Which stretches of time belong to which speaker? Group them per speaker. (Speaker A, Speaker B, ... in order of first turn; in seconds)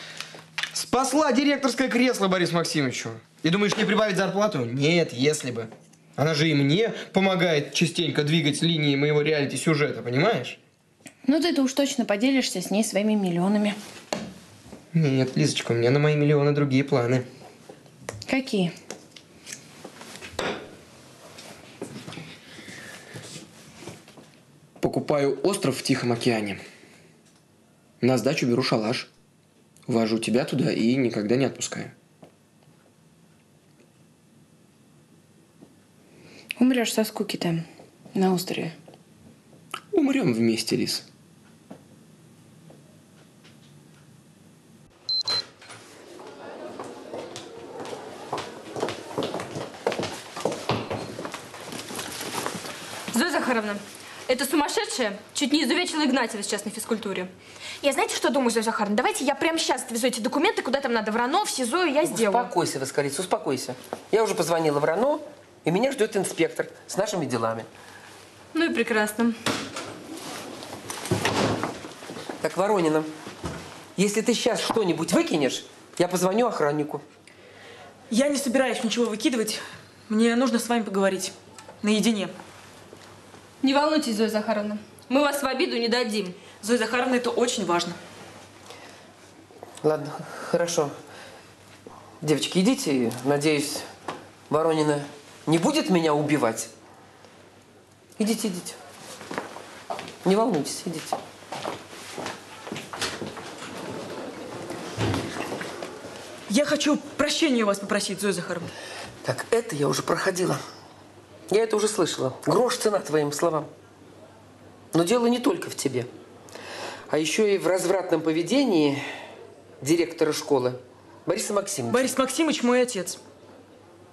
Speaker A: 0.7-10.6, 14.9-17.3, 24.8-26.6, 28.0-29.1, 29.9-31.9, 39.9-41.0
Speaker B: 11.3-13.8, 18.3-18.7, 36.6-38.7
Speaker C: 53.1-57.3, 68.5-69.4, 83.6-86.4
Speaker D: 57.8-62.5
Speaker E: 62.0-67.7, 72.4-73.1, 74.0-77.0, 89.8-90.9, 92.2-93.9, 94.5-96.7, 98.2-98.8, 100.2-101.2, 109.2-110.6, 111.5-113.7, 114.9-116.1, 117.1-119.0, 119.8-122.1
Speaker F: 78.1-82.3, 86.6-88.0, 106.5-108.7, 121.9-123.2